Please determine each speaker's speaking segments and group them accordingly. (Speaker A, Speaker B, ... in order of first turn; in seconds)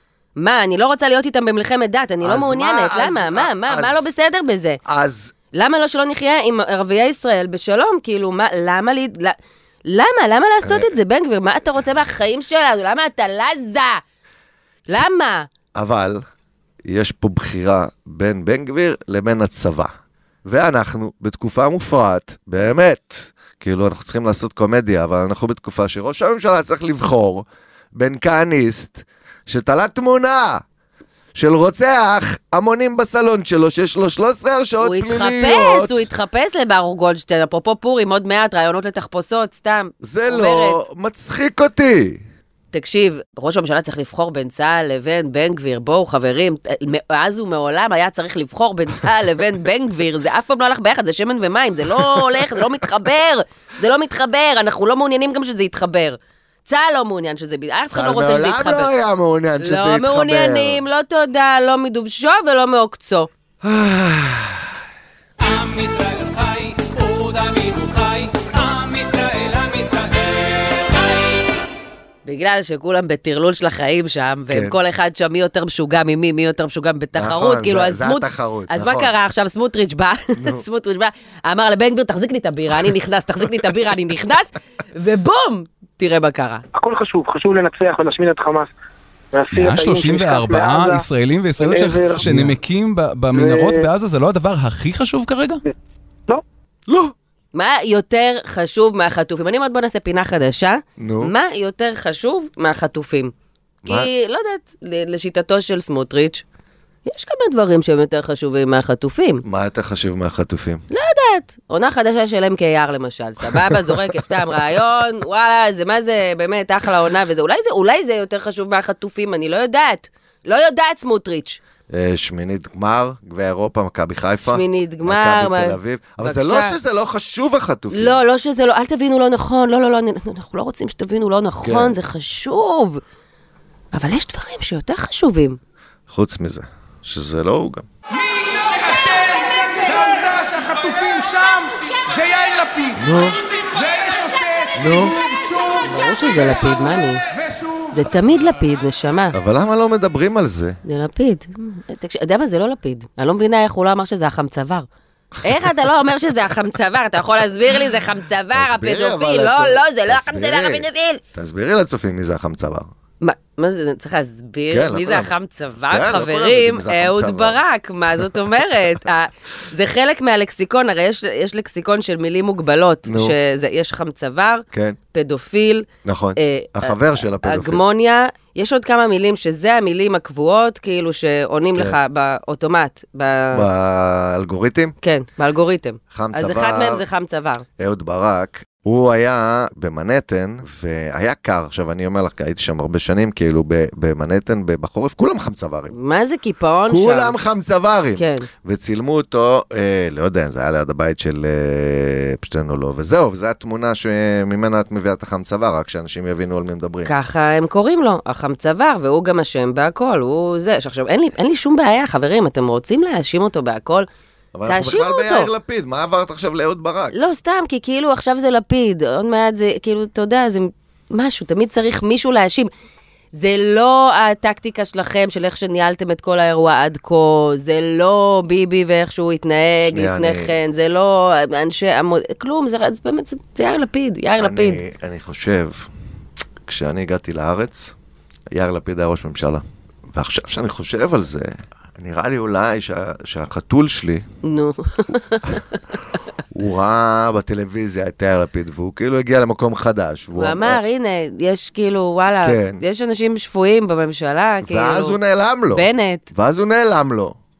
Speaker A: 0.4-4.8, 5.5-14.0, 14.9-15.5, 34.8-40.8, 42.7-58.9, 59.6-63.3, 72.2-86.6, 97.5-103.3, 103.8-106.4, 107.0-109.4, 110.9-121.6, 124.5-126.8, 127.9-133.0, 133.9-135.6, 145.8-147.2, 147.9-149.3, 150.8-154.9, 155.4-161.2, 163.2-183.6, 185.0-187.6, 195.9-197.3, 198.2-198.5, 207.0-214.1, 214.7-215.5, 217.1-222.7, 223.3-234.8, 244.4-245.6, 250.3-255.2, 255.7-256.3
Speaker B: 2.2-4.1, 4.8-5.3, 10.6-10.9, 15.7-16.2, 16.8-19.9, 20.4-30.6, 31.3-36.1, 40.0-42.2, 57.9-60.8, 63.6-64.7, 74.5-74.8, 77.1-79.1, 80.4-80.6, 92.2-92.5, 96.9-97.1, 101.0-101.3, 109.4-110.8, 121.9-128.2, 131.6-131.9, 136.1-137.8, 142.9-143.4, 144.7-145.2, 149.3-150.8, 158.5-162.9, 164.7-165.3, 165.9-167.6, 173.1-173.3, 174.7-175.0, 176.0-177.8, 183.5-184.9, 186.1-187.0, 187.8-195.9, 196.9-207.1, 214.5-217.1, 229.8-230.5, 234.4-235.9, 236.6-237.9, 238.5-244.2, 246.5-250.8, 252.4-252.8, 254.6-257.4
Speaker C: 65.4-71.4
Speaker D: 86.7-88.7, 89.3-91.0, 91.6-92.3, 93.3-93.9
Speaker E: 89.5-95.6, 142.2-142.8